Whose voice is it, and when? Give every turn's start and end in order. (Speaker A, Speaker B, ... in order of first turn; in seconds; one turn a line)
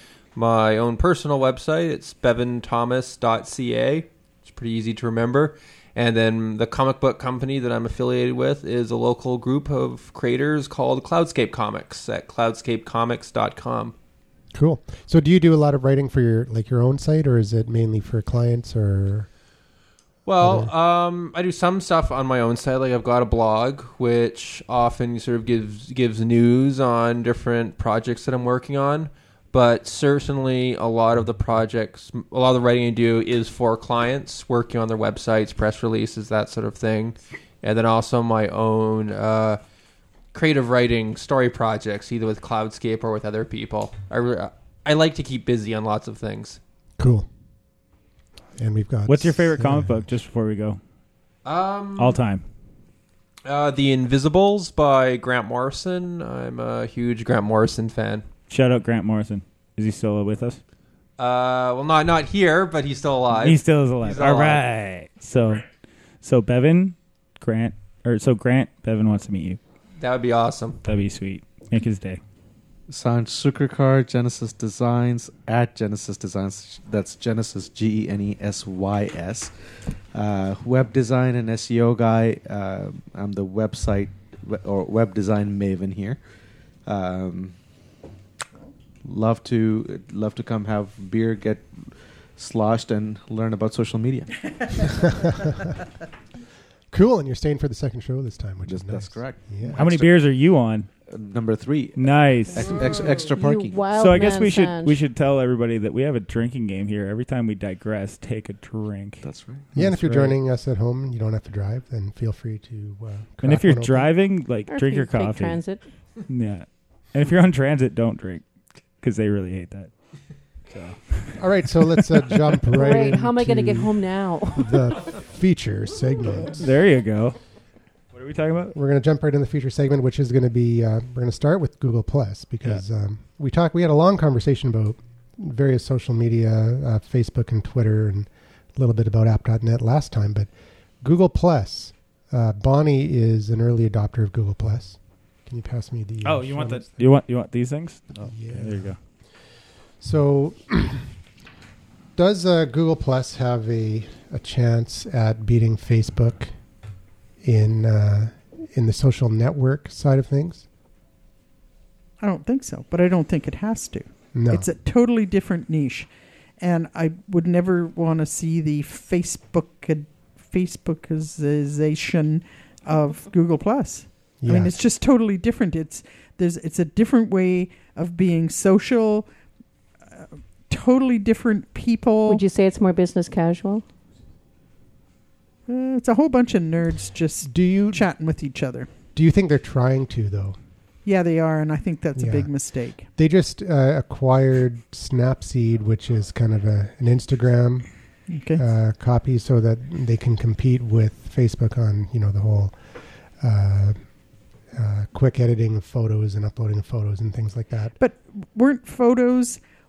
Speaker A: 0.3-13.9
Speaker B: 14.5-19.3
Speaker A: 20.2-39.6
Speaker B: 20.4-20.7
Speaker A: 40.3-46.6
Speaker B: 47.0-47.3
Speaker B: 48.6-50.0
Speaker C: 49.1-50.8
Speaker A: 51.4-52.2
Speaker C: 52.0-52.4
Speaker A: 53.4-58.2
Speaker C: 58.5-60.6
Speaker A: 61.2-64.6
Speaker C: 63.3-65.7
Speaker C: 66.2-69.6
Speaker A: 70.0-70.8
Speaker C: 70.8-72.2
Speaker D: 72.9-79.5
Speaker D: 80.1-86.2
Speaker D: 86.8-87.5
Speaker D: 89.0-94.3
Speaker B: 96.9-99.9
Speaker D: 98.6-100.2
Speaker C: 99.8-100.9
Speaker D: 101.1-103.8
Speaker C: 102.0-102.8
Speaker E: 103.3-105.0
Speaker C: 103.9-110.3
Speaker D: 109.2-109.7
Speaker B: 109.7-114.1
Speaker C: 113.4-115.6
Speaker E: 114.7-115.8
Speaker C: 116.3-118.4
Speaker C: 119.0-119.9
Speaker C: 120.7-122.3
Speaker B: 121.3-126.6
Speaker E: 122.7-124.9
Speaker C: 126.4-127.4
Speaker C: 128.1-128.8
Speaker B: 128.7-140.5
Speaker B: 141.0-147.1
Speaker C: 146.2-149.0
Speaker B: 148.2-149.0
Speaker B: 150.0-151.1
Speaker B: 152.1-156.5
Speaker B: 157.4-160.7
Speaker F: 162.2-179.3
Speaker B: 164.3-164.6
Speaker B: 174.4-174.7
Speaker F: 180.1-182.4
Speaker E: 182.3-183.8
Speaker F: 185.7-188.9
Speaker B: 187.4-188.1
Speaker B: 189.1-190.6
Speaker F: 191.0-193.1
Speaker B: 192.2-192.5
Speaker B: 193.1-197.9
Speaker F: 198.3-198.6
Speaker B: 198.5-202.7
Speaker B: 203.4-204.0
Speaker B: 204.7-207.9
Speaker F: 208.0-209.6